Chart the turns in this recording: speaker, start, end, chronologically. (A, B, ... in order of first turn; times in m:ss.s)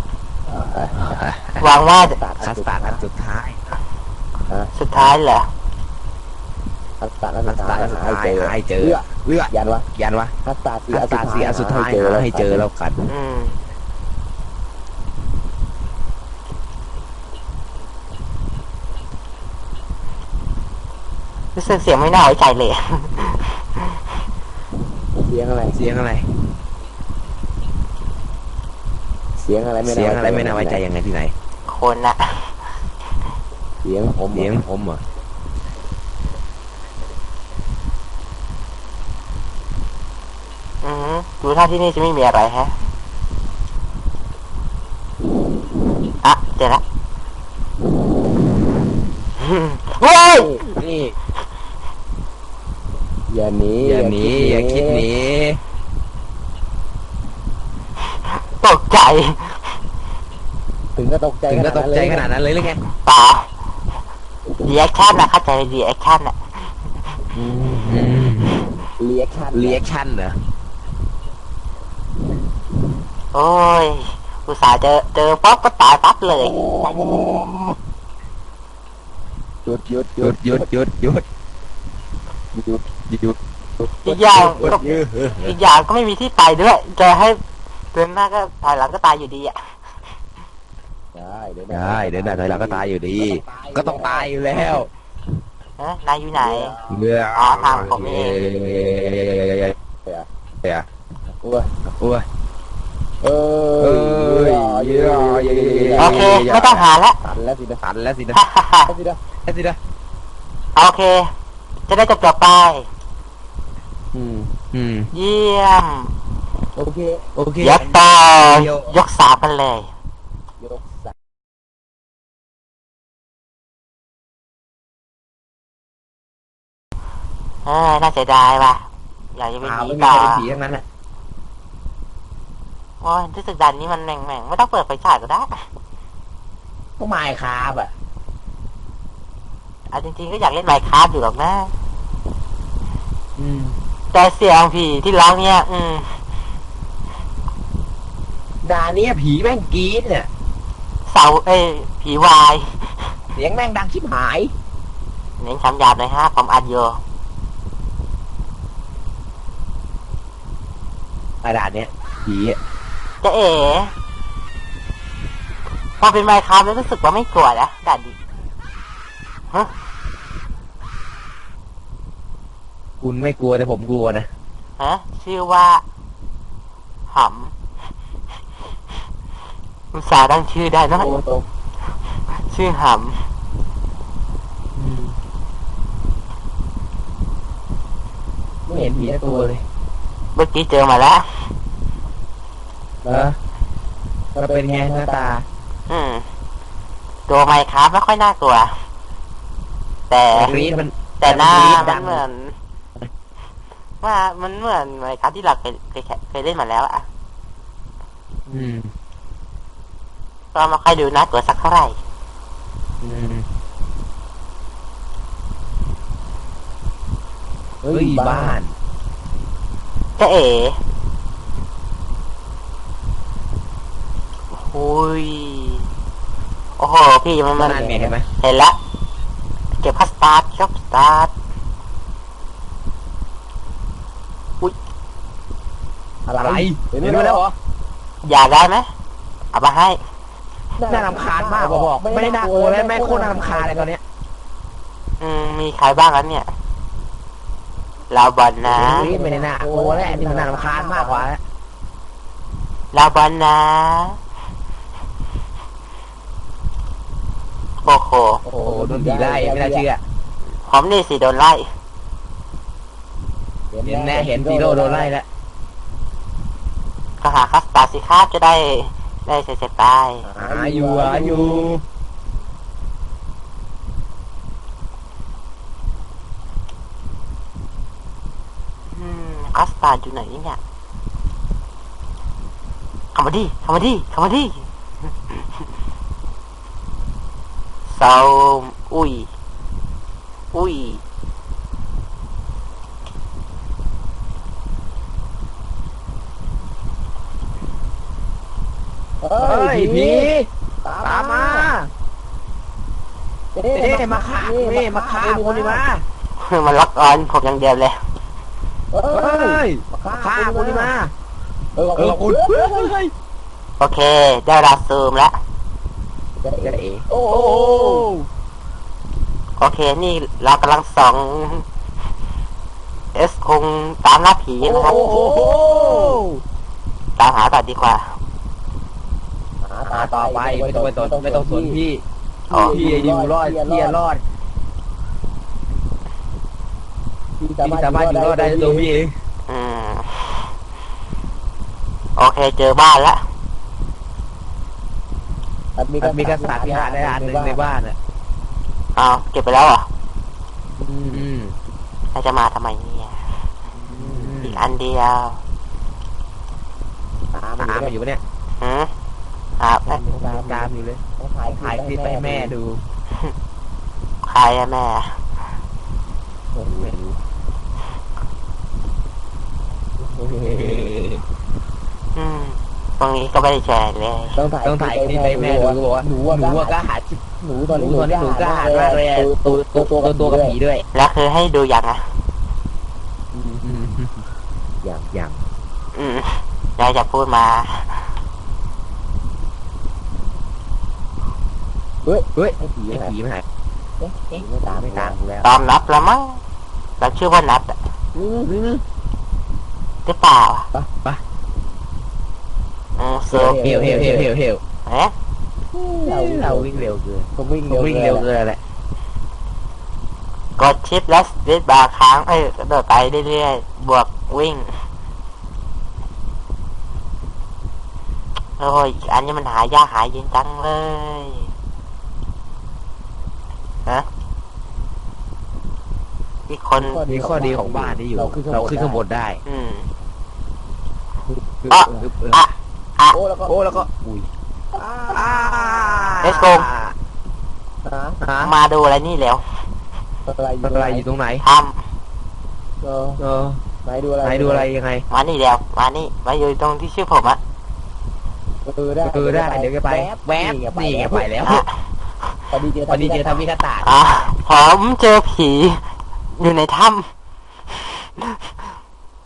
0:00.5-0:01.1 A
0:00.9-0:01.7 B
0:01.6-0:02.2 C
0:02.0-0:03.0 A
0:02.4-0:03.6 B
0:04.7-0:05.5 C
0:07.0-0:09.9 A
0:07.4-0:10.3 B
0:10.4-0:12.6 A
0:10.9-0:13.1 B
0:13.0-0:13.6 C
0:21.5-0:23.8 C
0:25.2-0:25.8 A
0:25.7-0:26.3 B
0:29.4-0:30.8 A
0:29.8-0:31.3 B
0:31.7-0:32.5 C
0:33.8-0:34.6 A
0:34.3-0:35.0 B
0:40.8-0:42.7 C
0:46.2-0:46.8 C
0:49.4-0:50.6 C
0:50.4-0:50.6 A
0:50.6-0:51.2 B
0:53.3-0:55.0 A
0:53.8-0:55.6 B
0:58.6-0:59.8 C
1:00.9-1:02.3 A
1:01.5-1:02.8 B
1:03.0-1:03.5 C
1:04.6-1:06.4 C
1:07.3-1:08.7 B
1:09.0-1:09.8 A
1:09.5-1:10.4 B
1:13.3-1:16.6 C
1:16.4-1:17.8 B
1:19.6-1:20.7 A
1:20.2-1:21.2 B
1:22.6-1:23.4 B
1:24.0-1:27.4 C
1:24.1-1:25.6 B
1:24.6-1:24.9 A
1:27.9-1:29.6 C
1:31.1-1:34.3 A
1:31.7-1:34.9 B
1:35.8-1:36.8 C
1:36.4-1:36.8 A
1:36.9-1:39.8 B
1:37.3-1:38.4 C
1:41.4-1:41.8 A
1:41.8-1:42.2 B
1:43.2-1:46.4 A
1:43.8-1:46.8 B
1:46.0-1:47.2 C
1:47.2-1:47.8 A
1:47.8-1:48.4 B
1:48.3-1:48.9 C
1:48.8-1:49.2 A
1:49.4-1:49.8 B
1:50.8-1:51.3 C
1:51.9-1:52.9 C
1:54.1-1:55.1 B
1:55.1-1:56.1 C
1:56.8-1:57.3 A
1:57.3-1:59.0 B
1:57.6-1:59.9 C
2:00.6-2:01.1 A
2:07.6-2:10.5 C
2:09.6-2:10.8 B
2:13.0-2:15.6 C
2:17.0-2:17.9 B
2:19.9-2:21.7 C
2:23.4-2:23.8 B
2:24.1-2:26.2 C
2:28.6-2:30.3 B
2:31.1-2:33.1 C
2:33.3-2:34.5 B
2:35.4-2:37.0 C
2:41.4-2:42.6 B
2:43.2-2:43.9 C
2:46.0-2:48.1 C
2:53.0-2:54.3 B
2:54.8-2:55.8 C
2:57.1-2:57.5 C
2:59.9-3:01.2 C
3:00.9-3:01.4 A
3:02.3-3:03.2 C
3:04.8-3:05.2 B
3:08.7-3:09.6 B
3:10.3-3:11.5 C
3:13.0-3:13.3 A
3:13.1-3:13.4 B
3:14.4-3:15.4 A
3:14.4-3:15.4 B
3:15.9-3:16.3 C
3:17.3-3:18.7 C
3:20.1-3:20.6 C
3:20.3-3:22.2 B
3:21.2-3:22.6 C
3:24.0-3:27.0 C
3:28.5-3:28.9 B
3:30.5-3:32.0 C
3:33.0-3:33.5 B
3:37.8-3:38.6 A
3:37.9-3:38.8 B
3:40.2-3:40.8 C
3:44.5-3:45.9 C
3:46.8-3:47.8 C
3:47.6-3:48.3 B
3:47.6-3:48.2 A
3:48.4-3:48.8 C
3:49.8-3:51.3 C
3:56.3-3:57.4 A
3:56.4-3:57.5 B
3:58.2-3:58.9 C
3:59.5-4:00.0 C
4:00.8-4:03.9 A
4:00.9-4:04.0 B
4:05.2-4:06.5 C
4:08.1-4:09.1 C
4:08.6-4:11.4 B
4:08.9-4:11.3 A
4:12.9-4:14.2 C
4:17.8-4:18.4 C
4:18.5-4:19.8 A
4:18.5-4:20.0 B
4:20.6-4:21.7 C
4:23.7-4:25.1 A
4:23.8-4:25.2 B
4:27.2-4:30.3 C
4:30.2-4:31.7 A
4:30.4-4:31.8 B
4:38.9-4:40.6 C
4:43.1-4:44.7 C
4:47.9-4:49.3 C
4:50.5-4:51.0 C
4:59.2-5:00.3 A
4:59.4-5:00.5 B
5:00.8-5:01.7 A
5:01.0-5:01.9 B
5:03.5-5:05.8 A
5:03.7-5:06.0 B
5:06.4-5:08.0 C
5:08.9-5:10.9 A
5:09.1-5:11.1 B
5:11.8-5:12.9 A
5:11.9-5:13.1 B
5:13.8-5:15.4 C
5:16.4-5:18.1 A
5:16.6-5:18.3 B
5:19.6-5:21.6 C
5:23.1-5:24.9 C
5:24.6-5:26.2 A
5:24.8-5:26.4 B
5:27.2-5:28.1 C
5:29.6-5:31.8 A
5:29.9-5:32.0 B
5:32.5-5:32.8 C
5:32.5-5:34.0 A
5:32.5-5:34.2 B
5:37.4-5:38.9 A
5:37.6-5:39.1 B
5:39.5-5:40.4 C
5:42.2-5:43.2 C
5:45.8-5:47.7 A
5:46.0-5:48.0 B
5:49.0-5:49.9 C
5:50.8-5:51.6 B
5:52.1-5:53.2 C
5:53.9-5:54.3 A
5:54.0-5:54.7 B
5:54.4-5:55.4 C
5:57.3-5:57.9 A
5:57.6-5:58.2 B
5:58.6-5:58.9 C
5:59.6-6:00.0 C
5:59.9-6:01.0 B
6:00.1-6:00.7 A
6:01.2-6:02.5 A
6:01.5-6:02.8 B
6:04.2-6:05.2 C
6:06.6-6:07.2 A
6:06.7-6:06.9 B
6:10.4-6:10.7 A
6:10.5-6:11.1 B
6:12.1-6:14.4 C
6:14.3-6:16.9 A
6:14.6-6:20.8 B
6:17.4-6:20.6 A
6:20.9-6:22.1 C
6:23.3-6:23.6 A
6:23.6-6:24.2 B
6:24.8-6:25.1 A
6:25.1-6:25.4 B
6:25.9-6:28.0 C
6:32.0-6:33.1 A
6:32.3-6:33.4 B
6:34.0-6:35.2 A
6:34.3-6:35.5 B
6:35.4-6:36.4 C
6:37.0-6:37.8 C
6:38.1-6:38.6 A
6:38.5-6:38.8 B
6:40.0-6:40.7 C
6:43.0-6:43.6 C
6:43.3-6:44.3 A
6:43.4-6:44.6 B
6:44.8-6:45.1 C
6:45.8-6:48.3 A
6:45.8-6:48.6 B
6:50.6-6:54.7 C
6:58.6-7:01.5 C
7:06.5-7:07.0 C
7:06.8-7:09.0 A
7:07.0-7:09.4 B
7:09.5-7:09.9 C
7:11.6-7:12.4 B
7:11.7-7:13.2 C
7:13.1-7:13.8 A
7:13.5-7:14.3 B
7:14.7-7:16.3 A
7:15.1-7:17.0 B
7:16.2-7:16.7 C
7:17.8-7:18.2 A
7:18.2-7:18.5 B
7:18.4-7:19.4 C
7:20.2-7:21.1 A
7:20.6-7:21.4 B
7:21.4-7:21.8 C
7:22.8-7:23.2 A
7:23.2-7:23.6 B
7:23.8-7:24.7 A
7:24.2-7:25.0 B
7:25.1-7:27.4 C
7:28.6-7:31.3 A
7:29.0-7:31.7 B
7:32.5-7:33.4 A
7:32.9-7:33.9 B
7:33.8-7:35.8 C
7:36.4-7:37.1 C
7:37.8-7:38.4 C